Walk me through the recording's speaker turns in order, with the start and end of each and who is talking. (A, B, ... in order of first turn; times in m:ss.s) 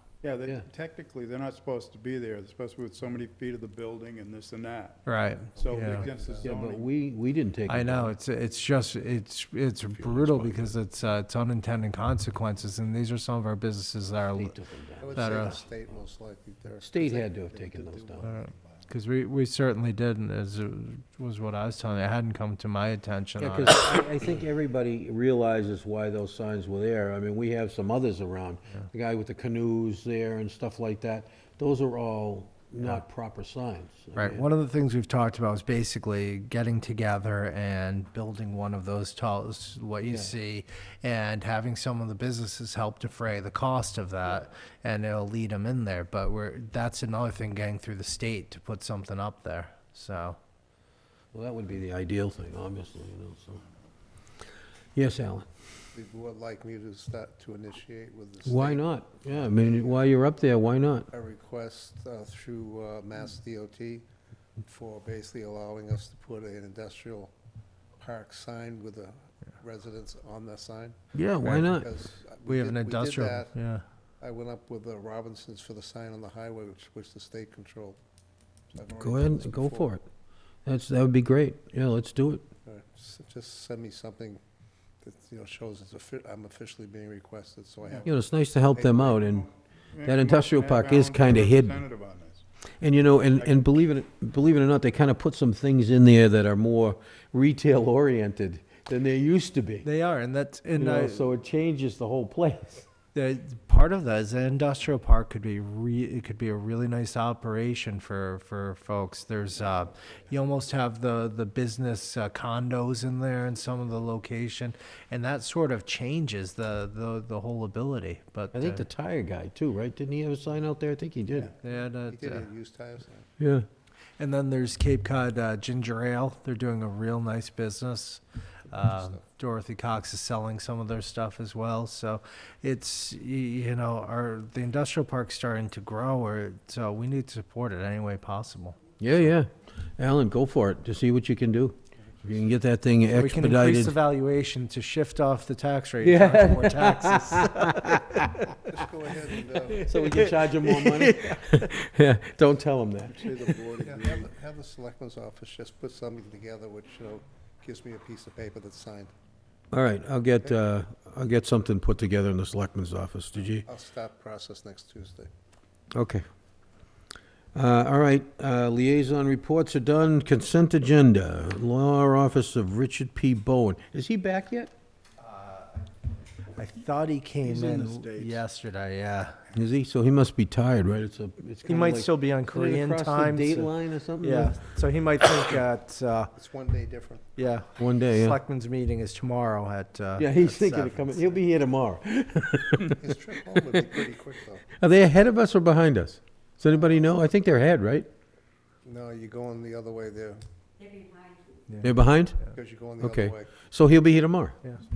0:00.2-0:05.0 A
0:05.1-0:06.1 B
0:05.4-0:06.6 C
0:05.6-0:06.9 A
0:06.4-0:08.1 D
0:07.7-0:14.6 B
0:14.4-0:15.5 D
0:15.0-0:18.5 C
0:15.2-0:15.6 B
0:16.8-0:18.3 D
0:18.2-0:23.9 B
0:23.4-0:34.4 D
0:34.2-0:50.4 B
0:40.0-0:40.3 D
0:51.3-0:53.6 D
0:55.0-0:55.5 D
0:55.9-0:58.8 C
0:58.4-1:01.1 D
0:59.4-1:00.0 C
1:01.1-1:04.0 C
1:04.6-1:07.3 C
1:08.0-1:11.0 C
1:11.1-1:11.9 D
1:11.4-1:11.7 B
1:11.5-1:13.5 C
1:12.4-1:13.8 B
1:14.2-1:18.0 C
1:18.7-1:19.9 C
1:19.0-1:20.0 D
1:20.7-1:22.4 D
1:22.6-1:24.4 C
1:25.0-1:28.1 C
1:28.0-1:29.5 D
1:28.7-1:29.4 C
1:29.9-1:32.4 A
1:30.0-1:31.8 D
1:32.8-1:39.9 D
1:33.3-1:33.6 A
1:39.8-1:41.3 B
1:40.8-1:42.9 D
1:43.1-1:58.8 B
1:58.5-2:01.5 D
2:01.6-2:02.5 B
2:02.0-2:03.3 C
2:03.4-2:03.7 D
2:04.2-2:18.8 B
2:08.7-2:09.2 C
2:19.0-2:23.9 D
2:23.1-2:28.0 B
2:26.0-2:28.4 D
2:28.7-2:29.9 C
2:29.7-2:31.7 B
2:29.8-2:33.2 D
2:33.1-2:39.1 C
2:33.4-2:34.2 A
2:39.7-2:43.6 D
2:43.6-2:45.3 C
2:45.9-2:46.2 D
2:47.5-2:54.7 D
2:55.2-2:55.8 B
2:56.6-2:59.4 B
2:57.4-2:58.4 A
2:59.5-3:04.6 D
3:01.6-3:06.3 B
3:06.4-3:07.3 C
3:07.4-3:11.3 B
3:07.8-3:08.4 D
3:10.2-3:14.0 D
3:12.9-3:14.6 C
3:14.8-3:18.1 D
3:18.8-3:20.4 C
3:21.8-3:22.4 D
3:22.5-3:23.5 C
3:23.0-3:24.6 D